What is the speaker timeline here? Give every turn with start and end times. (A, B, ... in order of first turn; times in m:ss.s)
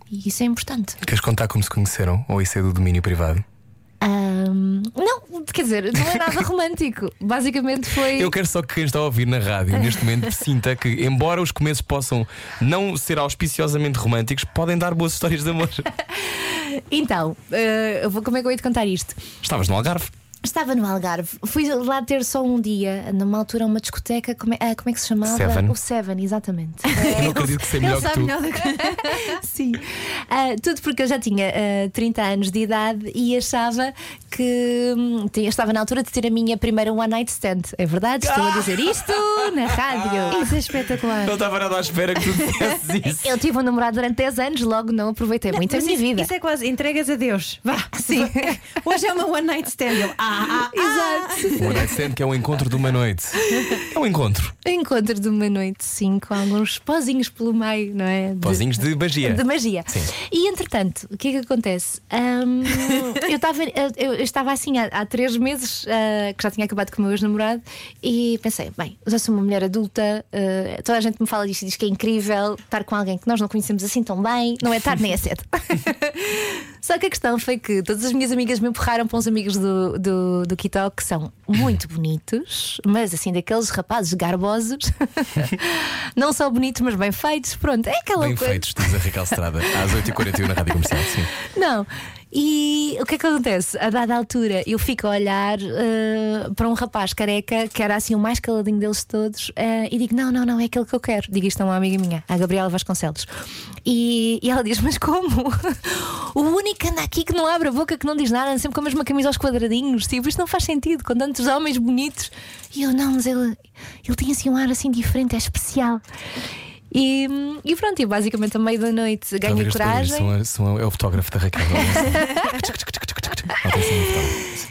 0:00.1-0:01.0 A
0:01.0-0:03.4 B
0:04.0-0:08.3 A
0:08.1-0:15.9 B
0:16.1-0:19.2 A
0:19.4-0:20.1 B
0:20.4-0:27.4 A
0:25.2-0:25.8 B
0:26.9-0:29.4 C
0:27.0-0:28.4 B
0:28.6-0:40.6 A
0:38.2-0:40.4 B
0:40.3-0:41.4 C
0:41.2-0:43.4 B
0:43.0-0:46.3 A
0:45.5-0:51.8 C
0:47.9-0:48.6 A
0:50.7-0:51.9 A
0:51.6-0:54.6 B
0:54.6-1:29.1 A
0:58.4-1:00.1 B
1:28.2-1:31.3 B
1:29.9-1:30.1 A
1:31.4-1:43.3 A
1:43.9-1:56.0 A
1:56.9-2:00.3 A
1:59.4-2:04.6 B
2:01.8-2:02.7 A
2:03.5-2:04.4 A